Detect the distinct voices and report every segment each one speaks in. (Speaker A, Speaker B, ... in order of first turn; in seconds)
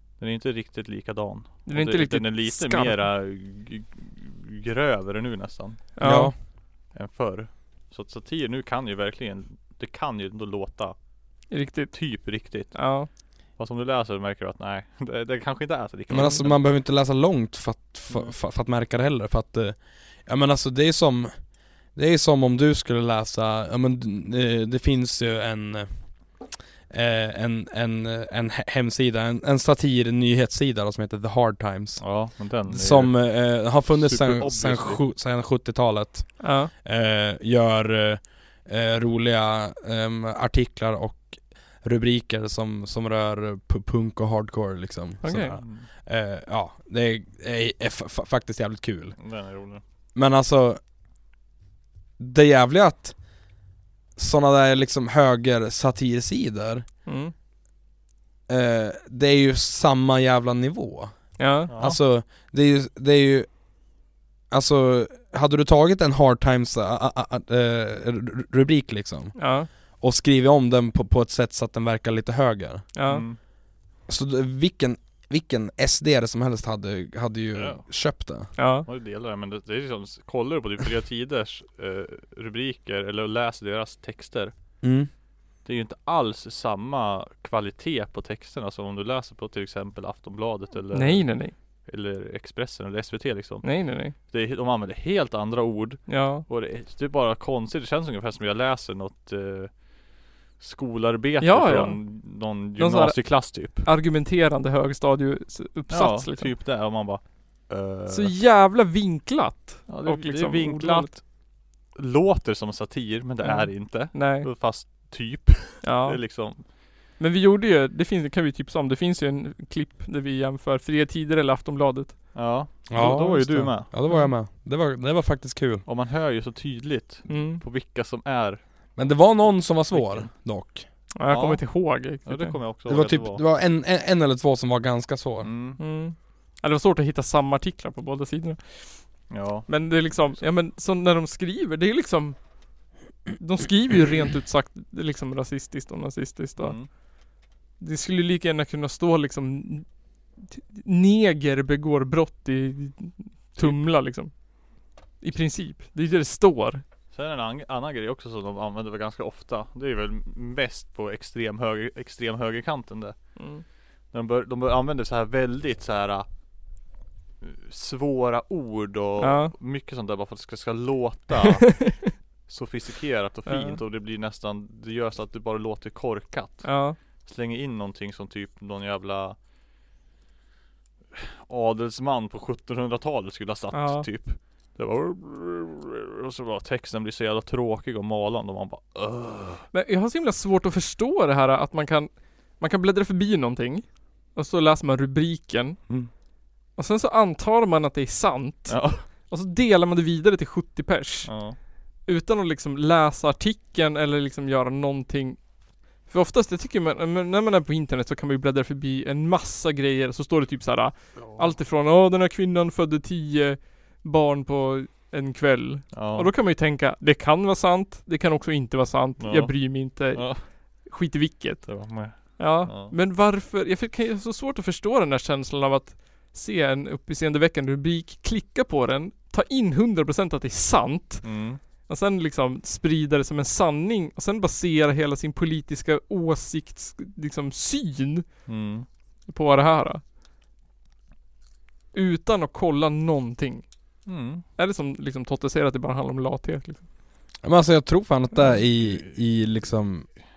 Speaker A: 0.2-16.7, 18.1-18.3, 32.0-35.1, 45.6-45.9, 49.2-49.8, 61.7-62.0, 73.1-73.4, 77.5-84.5, 85.6-103.9, 105.9-108.4, 109.9-116.7, 122.3-124.1, 125.9-129.4, 129.9-130.3, 131.3-133.4, 135.4-135.8, 139.3-140.4, 146.6-146.9, 153.6-153.8, 157.1-166.3, 167.4-179.4, 181.1-189.7, 198.7-199.1, 201.3-201.6, 211.2-211.5, 215.9-216.3, 219.2-220.5, 221.7-222.9, 231.2-231.6, 238.5-238.9, 244.1-244.4, 248.5-249.2
Speaker B: 1.6-3.0, 6.0-6.3, 11.5-13.1, 16.1-16.4, 36.4-36.7, 45.2-45.6, 57.0-57.3, 61.4-61.7, 69.4-69.7, 73.0-73.2, 78.6-78.9, 90.9-91.5, 93.6-94.1, 96.1-96.4, 101.4-106.5, 108.1-111.1, 113.4-114.5, 115.8-122.3, 127.3-127.6, 131.1-132.6, 135.8-147.1, 147.8-156.8, 163.4-163.6, 169.2-169.5, 171.8-172.1, 173.4-173.8, 176.6-177.0, 183.7-184.1, 189.7-196.2, 196.7-238.6, 239.3-240.0, 241.9-246.9
Speaker C: 6.0-6.3, 16.1-49.2, 50.1-50.8, 52.2-53.5, 54.1-56.9, 58.5-73.4, 74.0-78.5, 84.8-85.1, 122.9-125.9, 128.9-130.9, 132.9-135.5, 247.4-250.1